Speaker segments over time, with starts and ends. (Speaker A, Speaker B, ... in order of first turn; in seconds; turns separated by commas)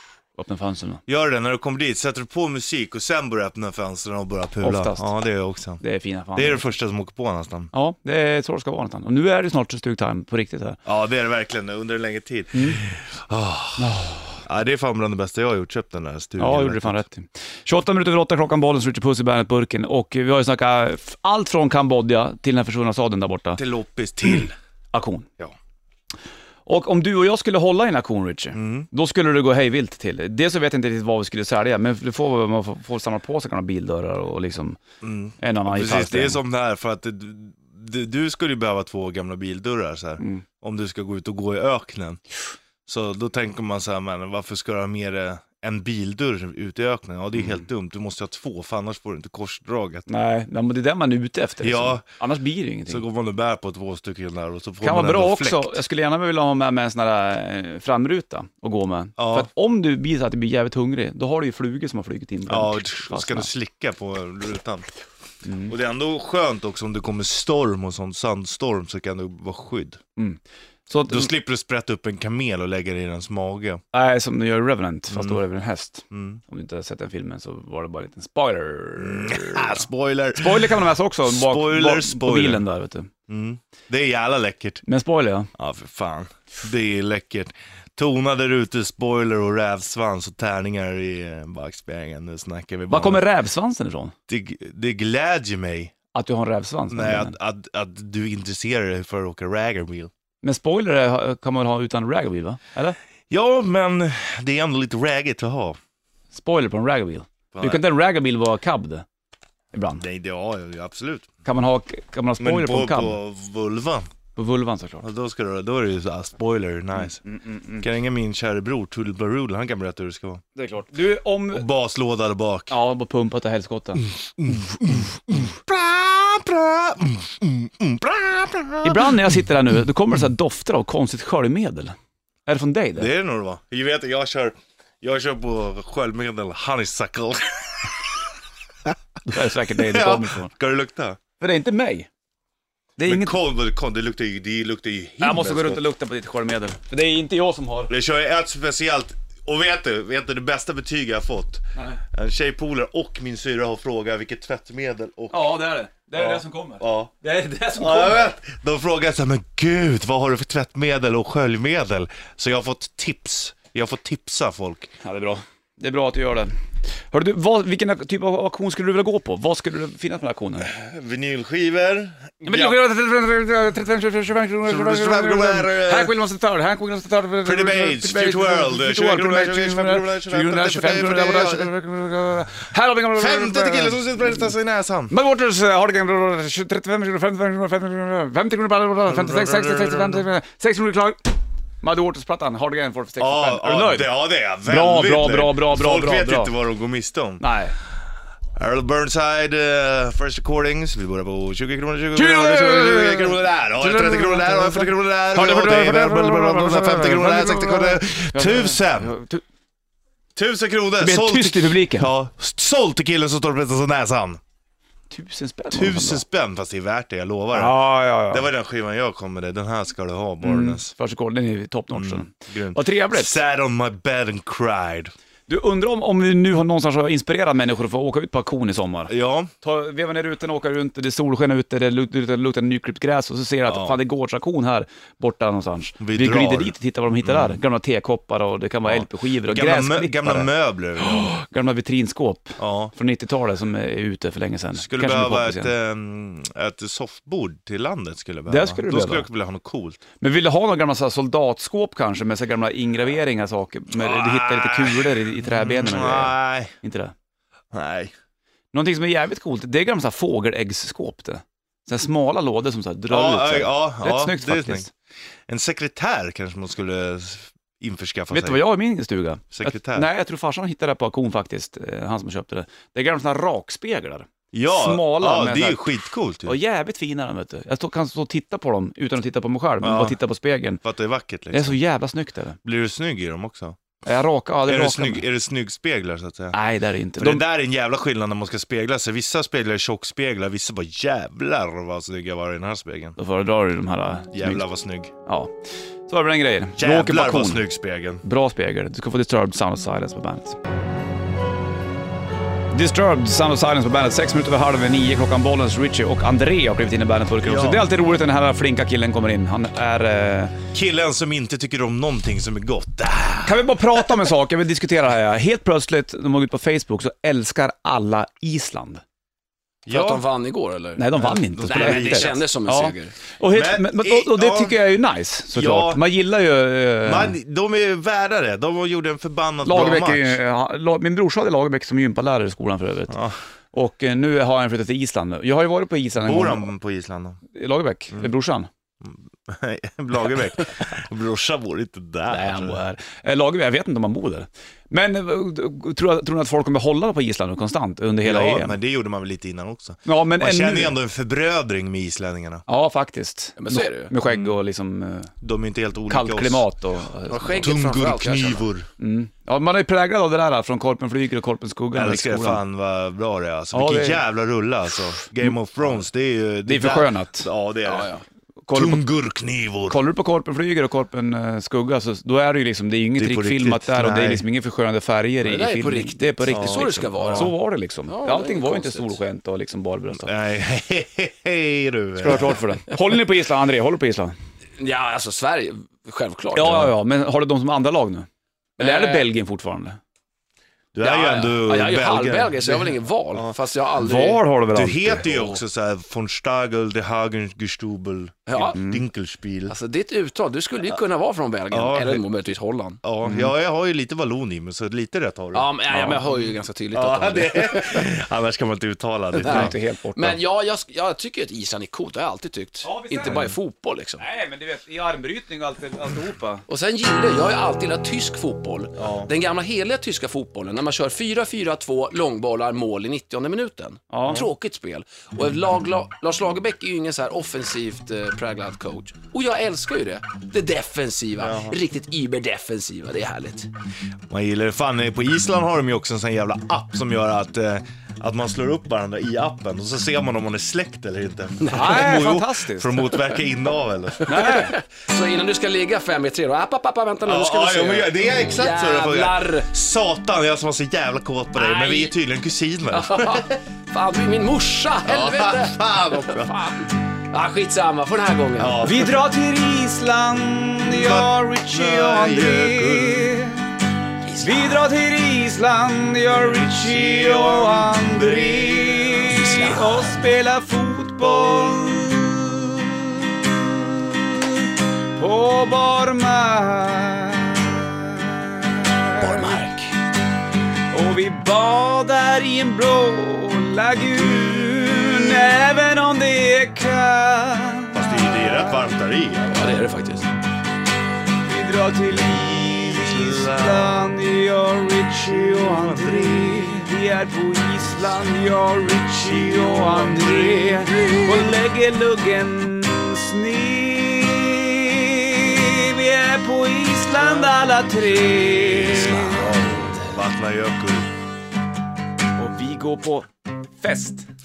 Speaker A: 0.3-1.0, Speaker B: 1.1-5.8, Speaker A: 4.6-5.1, Speaker A: 5.8-6.6, Speaker B: 6.3-7.7, Speaker A: 7.7-10.8, Speaker B: 10.8-17.0, Speaker A: 13.8-14.4, Speaker A: 16.4-23.6, Speaker B: 23.6-24.5, Speaker A: 24.9-25.3, Speaker A: 26.6-34.8, Speaker B: 28.5-28.9, Speaker B: 35.0-42.2, Speaker A: 35.4-36.4, Speaker A: 40.2-40.4, Speaker B: 42.9-50.1, Speaker A: 50.1-53.0, Speaker B: 51.6-52.0, Speaker B: 52.9-55.8, Speaker A: 54.8-63.5, Speaker B: 59.2-59.5, Speaker B: 62.5-64.9, Speaker A: 65.4-65.7, Speaker B: 65.7-70.0, Speaker A: 70.2-71.3, Speaker B: 71.1-73.8, Speaker A: 73.9-83.1, Speaker B: 75.1-75.4, Speaker B: 76.1-76.4, Speaker B: 79.0-82.6, Speaker B: 83.3-84.8, Speaker A: 84.8-85.5, Speaker B: 85.5-93.2, Speaker A: 92.9-94.1, Speaker B: 94.3-95.9, Speaker A: 96.1-97.3, Speaker B: 96.9-100.1, Speaker A: 100.4-103.0, Speaker B: 103.3-105.8, Speaker A: 106.3-109.0, Speaker B: 107.5-107.8, Speaker A: 109.7-110.0, Speaker B: 110.0-111.3, Speaker A: 111.4-113.2, Speaker B: 112.4-114.1, Speaker A: 114.3-115.1, Speaker B: 115.0-117.2, Speaker A: 117.0-117.8, Speaker B: 117.8-120.4, Speaker A: 120.5-121.7, Speaker B: 121.5-122.7, Speaker A: 122.7-124.0, Speaker B: 124.0-129.4, Speaker A: 128.8-133.1, Speaker B: 132.9-137.9, Speaker A: 139.2-140.5, Speaker B: 139.7-141.2, Speaker A: 141.4-142.1, Speaker A: 143.0-143.4, Speaker B: 143.0-145.8, Speaker A: 145.2-147.9, Speaker B: 147.9-155.6, Speaker A: 155.3-158.3, Speaker B: 156.2-157.1, Speaker B: 157.7-164.9, Speaker A: 165.0-166.6, Speaker A: 167.1-170.7, Speaker B: 170.6-172.8, Speaker A: 172.4-184.4, Speaker B: 174.6-176.1, Speaker B: 177.4-181.7, Speaker B: 183.1-185.1, Speaker A: 185.1-196.5, Speaker B: 189.1-190.3, Speaker B: 193.2-197.4, Speaker A: 197.4-197.7, Speaker B: 198.5-209.1, Speaker A: 202.1-209.4, Speaker B: 210.3-214.4, Speaker A: 211.0-212.1, Speaker A: 215.1-216.2, Speaker B: 215.7-220.9, Speaker A: 217.5-218.5, Speaker A: 220.4-223.4, Speaker B: 221.9-225.1, Speaker A: 225.5-245.7, Speaker B: 229.1-229.5, Speaker B: 233.7-234.0, Speaker B: 236.0-237.6, Speaker B: 238.9-241.3, Speaker B: 242.6-242.9, Speaker B: 244.8-250.0, Speaker A: 248.5-249.3, Speaker A: 250.2-257.1, Speaker B: 253.9-256.7, Speaker B: 257.7-258.1, Speaker A: 258.7-264.9, Speaker B: 263.1-264.9, Speaker B: 265.5-268.7, Speaker A: 268.3-275.9, Speaker B: 269.5-270.1, Speaker B: 274.5-276.6, Speaker A: 276.4-280.8, Speaker B: 279.8-280.2, Speaker B: 280.8-281.8, Speaker A: 281.5-282.6, Speaker B: 282.6-283.8, Speaker A: 284.0-285.2, Speaker B: 284.6-286.6, Speaker A: 286.5-287.4, Speaker B: 287.2-293.2, Speaker A: 293.2-294.7, Speaker B: 294.3-295.1, Speaker A: 295.2-295.5, Speaker A: 296.1-297.6, Speaker B: 296.8-298.2, Speaker A: 298.2-300.6, Speaker A: 302.7-310.6, Speaker B: 307.4-307.9, Speaker B: 310.7-313.7, Speaker A: 313.4-319.0, Speaker B: 319.9-320.2, Speaker C: 319.9-323.1, Speaker A: 321.0-327.4, Speaker B: 321.2-322.4, Speaker B: 323.5-324.8, Speaker B: 325.5-326.1, Speaker B: 327.0-330.4, Speaker A: 329.6-333.2, Speaker B: 333.1-333.4, Speaker A: 333.7-336.7, Speaker B: 336.2-337.4, Speaker A: 337.5-338.7, Speaker B: 339.0-342.8, Speaker A: 342.3-348.8, Speaker B: 348.2-352.6, Speaker A: 350.1-351.0, Speaker A: 352.7-355.3, Speaker C: 353.6-354.1, Speaker B: 354.2-354.6, Speaker B: 355.4-356.7, Speaker A: 356.1-357.7, Speaker C: 357.3-358.6, Speaker B: 357.5-358.9, Speaker A: 359.0-362.6, Speaker B: 361.9-368.1, Speaker A: 363.7-364.2, Speaker A: 366.6-367.5, Speaker C: 367.8-368.2, Speaker A: 368.7-369.0, Speaker B: 368.7-370.0, Speaker A: 369.9-380.3, Speaker B: 373.1-374.4, Speaker C: 375.4-379.1, Speaker B: 376.5-377.5, Speaker B: 380.2-382.5, Speaker A: 382.2-384.3, Speaker C: 384.8-386.9, Speaker A: 386.5-390.0, Speaker C: 388.8-389.3, Speaker B: 390.9-393.5, Speaker C: 391.0-394.5, Speaker A: 394.0-395.2, Speaker B: 394.7-399.7, Speaker C: 395.2-395.6, Speaker C: 398.5-398.8, Speaker A: 398.6-399.0, Speaker C: 399.7-403.0, Speaker B: 401.7-402.2, Speaker B: 403.0-405.7, Speaker A: 403.2-403.5, Speaker C: 405.5-408.1, Speaker A: 405.9-406.2, Speaker B: 406.9-409.7, Speaker C: 409.4-414.2, Speaker A: 409.4-410.4, Speaker A: 412.8-413.5, Speaker A: 414.2-416.6, Speaker C: 416.7-433.7, Speaker A: 424.1-424.5, Speaker B: 431.4-431.8, Speaker B: 434.3-444.5, Speaker A: 441.7-443.0, Speaker A: 444.2-444.7, Speaker C: 444.3-449.7, Speaker B: 447.2-453.5, Speaker C: 451.6-452.1, Speaker C: 452.9-458.9, Speaker B: 455.0-456.5, Speaker B: 458.6-459.1, Speaker A: 458.8-463.6, Speaker B: 460.8-463.3, Speaker C: 464.3-464.6, Speaker A: 464.4-474.5, Speaker B: 466.4-469.6, Speaker C: 469.3-470.0, Speaker B: 471.4-471.8, Speaker A: 475.1-479.6, Speaker C: 479.3-479.8, Speaker A: 480.9-488.8, Speaker B: 487.9-489.6, Speaker C: 489.5-490.4, Speaker A: 491.4-509.6, Speaker B: 492.1-494.0, Speaker B: 495.3-496.8, Speaker B: 499.1-501.5, Speaker B: 507.1-507.6, Speaker B: 508.1-511.1, Speaker A: 512.4-514.3